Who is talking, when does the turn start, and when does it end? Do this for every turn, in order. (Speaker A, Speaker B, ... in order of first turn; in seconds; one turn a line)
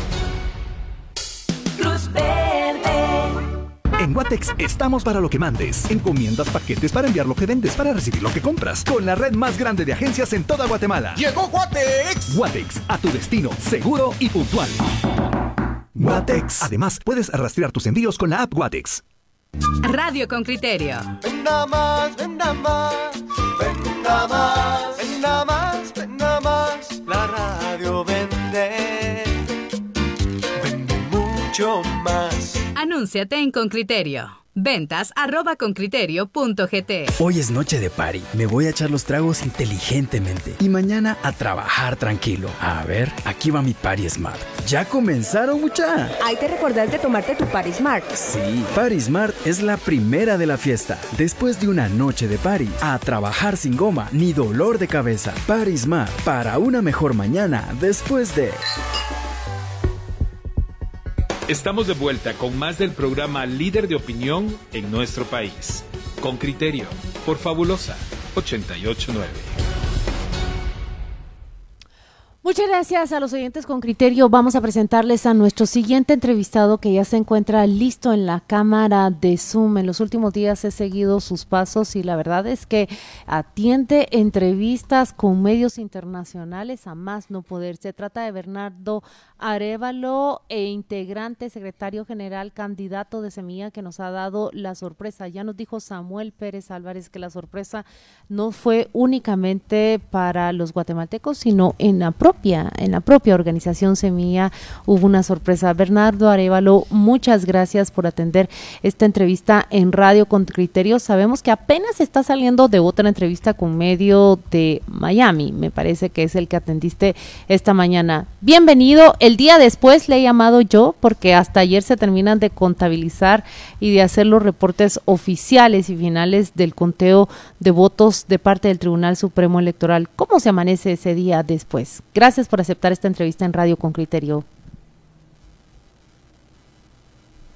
Speaker A: 1.8-2.9
Speaker B: 4.0-11.2
Speaker C: 12.0-12.3
Speaker B: 12.2-14.8
Speaker B: 15.9-19.0
Speaker A: 19.8-21.1
Speaker D: 21.2-29.4
Speaker D: 30.6-32.6
Speaker A: 32.7-37.1
Speaker E: 37.2-46.1
Speaker F: 46.2-48.3
Speaker E: 48.2-58.6
Speaker C: 61.5-69.5
Speaker G: 72.4-134.4